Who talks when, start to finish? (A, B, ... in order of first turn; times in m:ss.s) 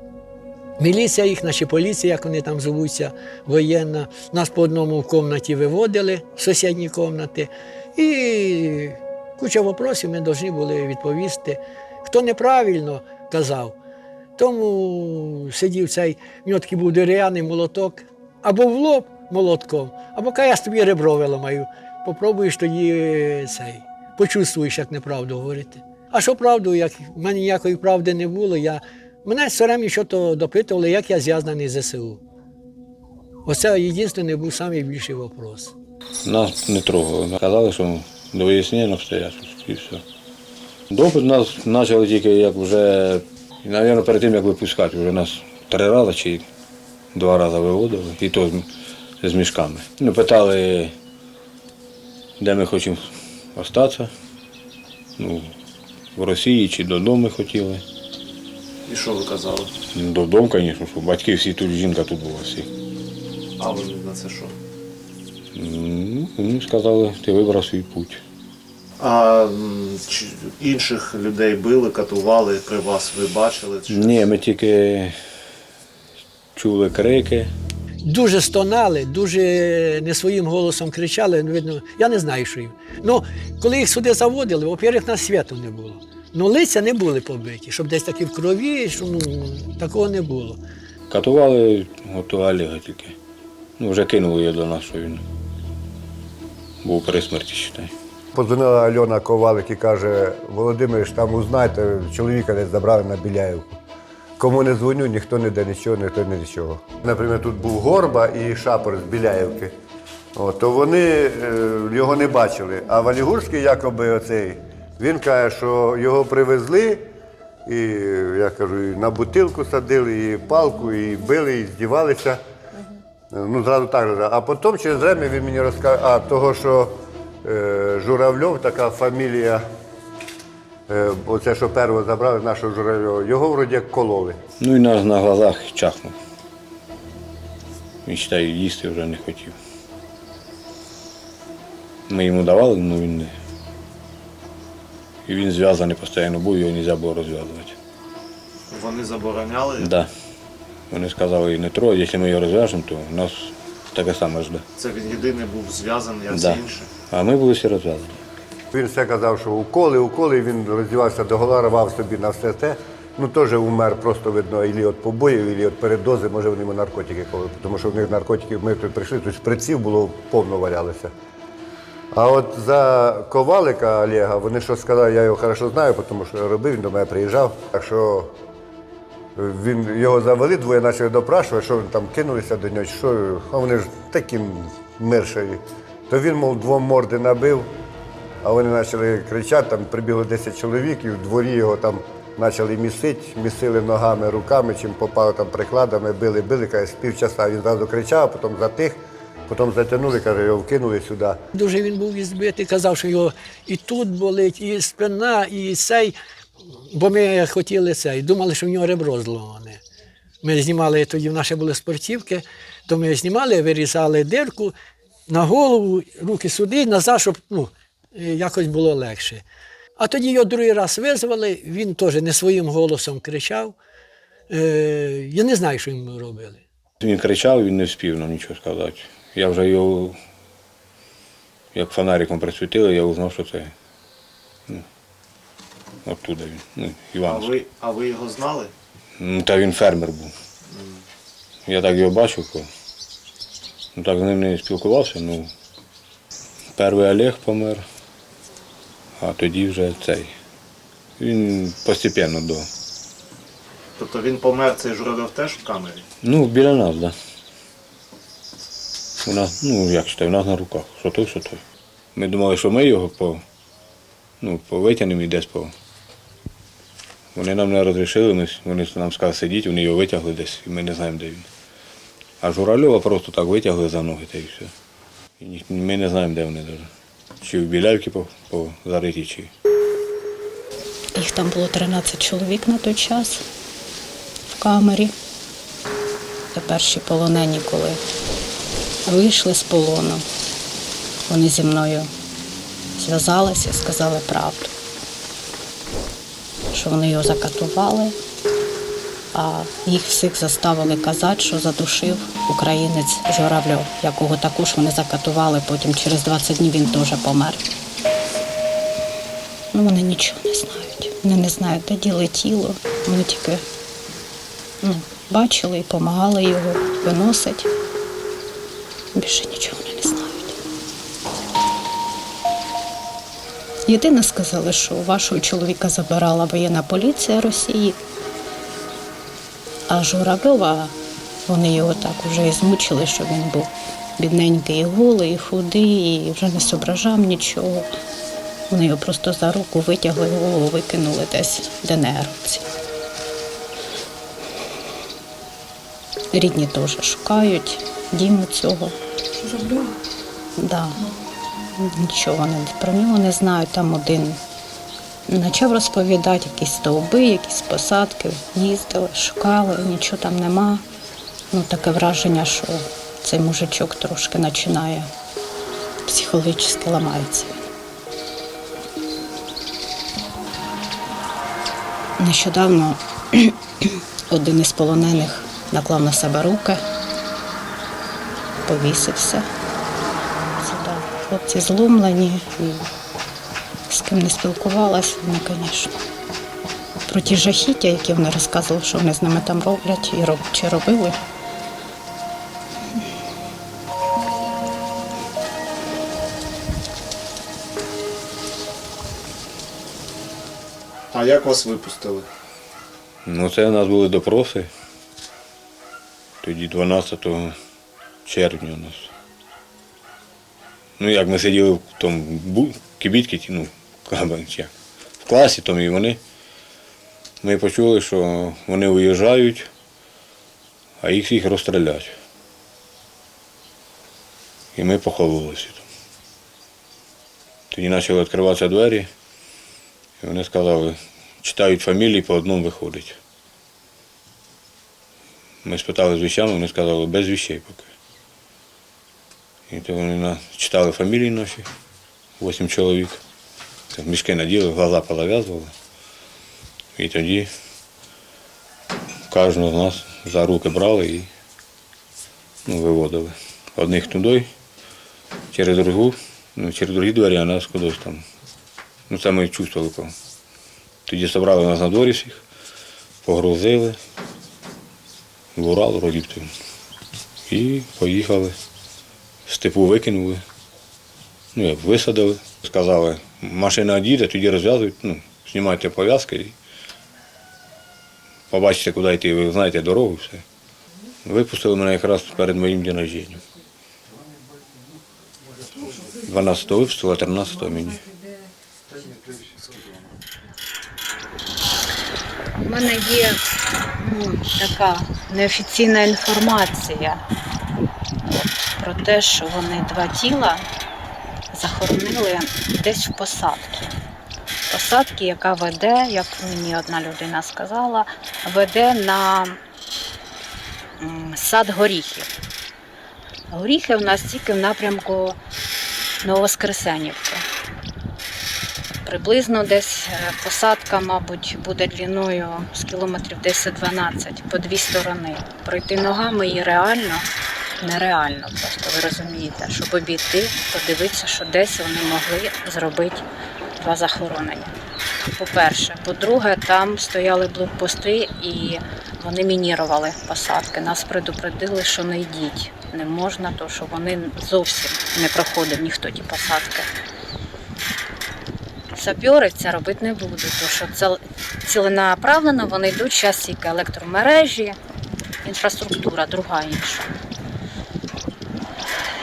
0:00.8-0:13.8 A
0:14.4-0:32.2 A
0:33.4-0:35.8 A
0:36.2-0:40.0 B
0:40.9-0:46.4 B
0:47.2-0:48.7 B
0:49.2-0:50.9 B
0:52.4-0:54.1 B
0:55.2-0:55.5 B
0:56.2-0:57.8 B
0:58.8-0:59.7 C
1:00.0-1:02.7 B
1:03.6-1:04.6 C
1:05.6-1:08.2 B
1:09.0-1:14.3 C
1:13.9-1:15.1 B
1:16.6-1:17.5 B
1:18.0-1:30.6 A
1:31.1-1:33.2 B
1:33.8-1:35.2 B
1:36.8-1:37.9 B
1:38.3-1:43.8 D
1:44.4-1:49.7 D
1:50.4-1:57.0 D
1:57.7-2:02.4 D
2:03.3-2:09.6 D
2:10.9-2:14.4 D
2:14.6-2:16.2 B
2:18.0-2:19.6 B
2:22.1-2:23.3 B
2:25.3-2:27.8 B
2:28.7-2:29.9 C
2:29.8-2:30.1 B
2:30.9-2:34.6 B
2:34.8-2:36.9 C
2:36.3-2:38.2 B
2:38.7-2:51.1 D
2:52.1-2:58.3 D
2:59.4-3:07.7 D
3:08.4-3:21.4 D
3:21.5-3:26.2 A
3:26.9-3:29.8 A
3:30.4-3:34.7 A
3:35.3-3:39.4 A
3:40.0-3:43.8 A
3:44.5-3:46.6 A
3:47.0-3:50.2 B
3:51.7-3:53.7 B
3:56.0-3:57.5 B
3:57.2-3:58.7 C
3:59.2-4:00.3 B
4:00.7-4:01.0 C
4:01.7-4:02.7 B
4:04.0-4:05.5 B
4:06.8-4:07.9 B
4:09.2-4:10.3 B
4:11.2-4:12.7 B
4:14.0-4:16.0 C
4:16.2-4:17.1 B
4:19.2-4:21.6 B
4:22.2-4:23.4 B
4:24.4-4:25.7 B
4:27.3-4:31.5 B
4:32.4-4:34.7 B
4:35.4-4:36.9 B
4:37.4-4:39.5 B
4:41.2-4:43.4 E
4:44.5-4:45.1 E
4:46.5-4:48.0 E
4:49.1-4:50.3 E
4:51.3-4:52.1 E
4:53.0-4:54.7 E
4:56.7-4:58.2 E
4:59.3-5:07.6 E
5:09.7-5:13.6 E
5:14.8-5:17.7 E
5:19.2-5:20.6 E
5:23.9-5:28.0 E
5:29.9-5:30.9 E
5:31.5-5:37.9 E
5:38.7-5:42.7 E
5:46.3-5:49.0 E
5:50.6-5:51.0 E
5:51.7-5:54.4 E
5:55.3-6:00.8 E
6:01.5-6:05.1 E
6:06.1-6:07.5 E
6:12.2-6:16.8 E
6:18.7-6:19.5 E
6:20.6-6:22.9 E
6:23.9-6:25.9 E
6:27.1-6:31.2 E
6:41.1-6:42.3 C
6:43.2-6:44.7 B
6:46.4-6:47.6 B
6:48.2-6:49.1 B
6:51.0-6:54.7 B
6:55.2-6:56.2 B
6:57.4-6:59.7 B
7:01.0-7:02.2 B
7:04.8-7:05.9 B
7:07.7-7:09.1 B
7:10.2-7:13.2 B
7:15.6-7:17.9 B
7:19.7-7:21.7 B
7:22.4-7:23.2 B
7:23.9-7:25.7 B
7:27.0-7:27.5 B
7:29.3-7:31.3 B
7:32.7-7:34.5 B
7:35.5-7:38.2 B
7:39.1-7:40.2 B
7:41.1-7:42.4 B
7:43.2-7:44.0 B
7:45.6-7:46.5 B
7:47.5-7:48.6 B
7:49.5-7:50.4 B
7:51.6-7:56.6 B
7:58.5-8:00.4 B
8:01.2-8:03.4 B
8:06.2-8:08.1 B
8:12.6-8:13.4 E
8:14.0-8:17.2 E
8:18.3-8:20.7 E
8:21.5-8:23.9 E
8:24.7-8:29.6 E
8:31.0-8:32.3 E
8:33.5-8:35.4 E
8:36.2-8:37.4 E
8:39.0-8:47.3 E
8:47.8-8:53.3 E
8:53.8-8:54.7 E
8:55.4-9:06.9 E
9:08.9-9:14.8 E
9:15.4-9:17.1 E